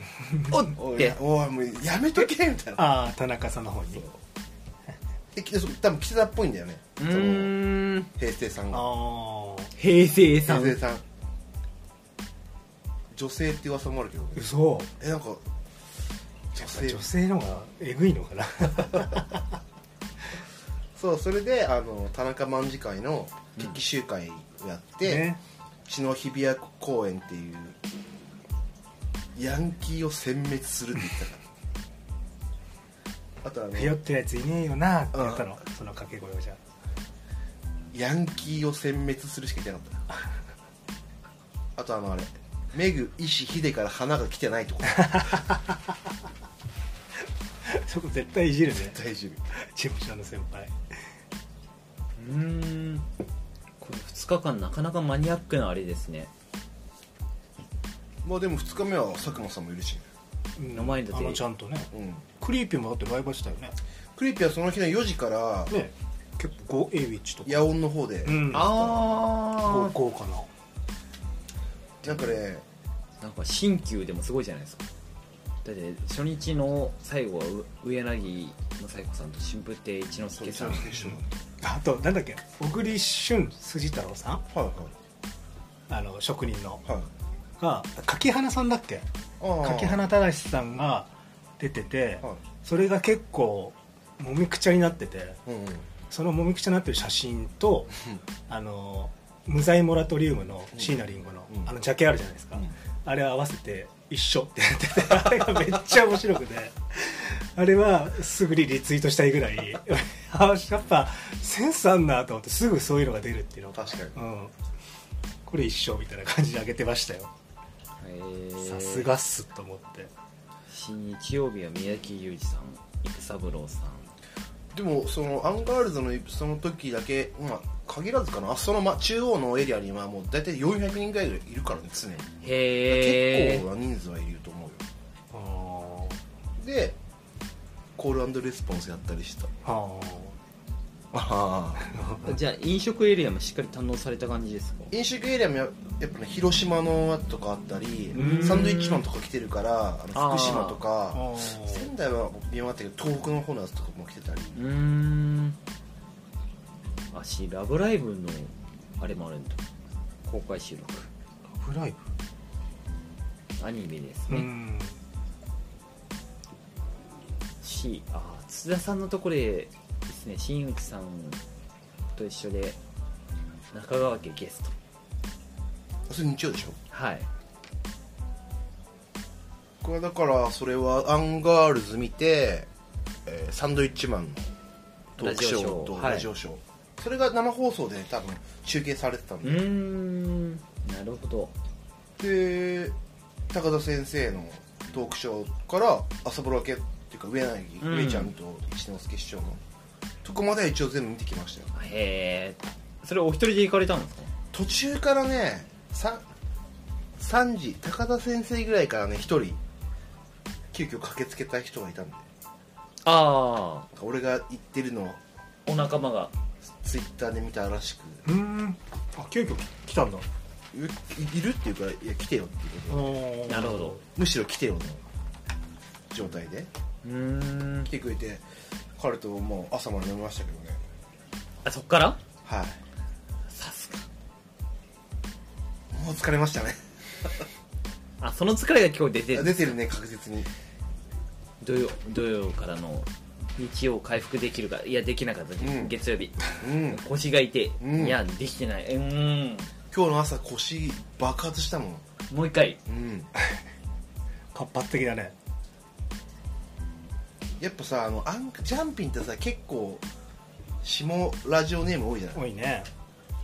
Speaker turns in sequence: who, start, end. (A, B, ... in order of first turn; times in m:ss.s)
0:00.5-0:01.2 A
0:00.7-0:02.9 B
0:02.8-0:04.0 C
0:05.3-0:07.6 B
0:07.0-0:08.1 A
0:08.2-0:08.9 B
0:08.7-0:09.7 C
0:09.8-0:10.8 A
0:10.4-0:11.0 B
0:13.1-0:14.4 B
0:14.3-0:14.9 C
0:15.0-0:15.4 B
0:16.5-0:17.0 B
0:16.6-0:19.4 C
0:21.0-0:25.3 B
0:25.0-0:25.4 C
0:25.9-0:27.8 B
0:29.4-0:31.4 B
0:33.4-0:34.0 B
0:33.7-0:36.6 C
0:35.1-0:35.5 B
0:37.9-0:40.0 B
0:41.8-0:45.4 B
0:44.9-0:45.8 C
0:47.6-0:49.0 C
0:48.7-0:49.4 B
0:49.5-0:50.7 C
0:52.2-0:53.0 A
0:53.8-0:56.3 A
0:58.2-1:00.0 B
1:00.6-1:03.7 C
1:00.7-1:01.4 A
1:01.9-1:02.2 B
1:04.2-1:05.7 B
1:05.7-1:07.6 C
1:07.4-1:09.1 B
1:08.2-1:08.7 C
1:08.5-1:09.9 A
1:09.6-1:10.5 C
1:12.0-1:12.6 B
1:13.2-1:14.8 A
1:15.6-1:21.0 A
1:20.4-1:21.4 B
1:21.6-1:24.4 C
1:24.5-1:24.9 B
1:25.9-1:26.8 C
1:27.6-1:29.0 C
1:29.4-1:30.0 B
1:29.6-1:35.4 C
1:35.4-1:35.8 B
1:36.1-1:38.0 C
1:38.5-1:54.5 C
1:53.7-1:54.2 B
1:55.4-1:57.3 C
1:58.0-1:59.1 A
1:58.6-2:00.1 C
2:00.7-2:04.1 A
2:04.7-2:12.3 B
2:12.4-2:13.6 A
2:12.9-2:14.8 B
2:15.3-2:16.2 C
2:16.6-2:17.0 B
2:18.0-2:19.5 B
2:19.6-2:20.3 C
2:21.1-2:21.9 B
2:21.8-2:22.3 C
2:22.2-2:24.9 A
2:24.9-2:34.6 B
2:28.1-2:28.7 C
2:28.1-2:29.0 A
2:30.1-2:30.8 A
2:31.1-2:31.9 C
2:34.6-2:35.6 A
2:37.1-2:39.6 A
2:40.3-2:41.1 A
2:41.6-2:42.0 C
2:43.6-2:44.5 A
2:44.3-2:44.9 C
2:47.6-2:51.4 A
2:52.2-2:52.8 A
2:53.7-2:54.7 A
2:56.1-2:56.8 B
2:56.9-2:57.3 A
2:59.8-3:02.7 B
3:03.2-3:04.5 B
3:05.2-3:06.3 A
3:05.2-3:09.7 B
3:09.4-3:11.5 A
3:12.2-3:13.0 B
3:13.5-3:19.6 B
3:17.8-3:18.3 A
3:20.2-3:21.7 B
3:21.7-3:24.3 A
3:24.5-3:26.2 B
3:27.2-3:29.6 B
3:30.7-3:32.2 B
3:33.0-3:33.9 A
3:33.9-3:35.2 B
3:35.6-3:36.3 A
3:36.7-3:38.2 B
3:38.2-3:40.2 C
3:40.7-3:43.2 B
3:42.9-3:44.0 C
3:43.5-3:44.0 A
3:44.2-3:45.0 B
3:46.1-3:46.7 B
3:47.0-3:47.9 A
3:47.8-3:48.4 B
3:49.0-3:50.8 B
3:51.6-3:52.2 A
3:52.4-3:52.8 B
3:53.5-3:54.0 A
3:55.9-3:57.4 B
3:58.2-3:59.8 A
3:59.3-4:00.5 B
4:01.6-4:09.7 A
4:05.6-4:05.9 B
4:06.6-4:07.0 B
4:07.8-4:08.2 B
4:09.9-4:12.0 B
4:12.3-4:12.8 A
4:12.8-4:13.3 B
4:14.5-4:15.3 C
4:17.6-4:20.0 B
4:20.8-4:22.4 B
4:22.3-4:22.9 C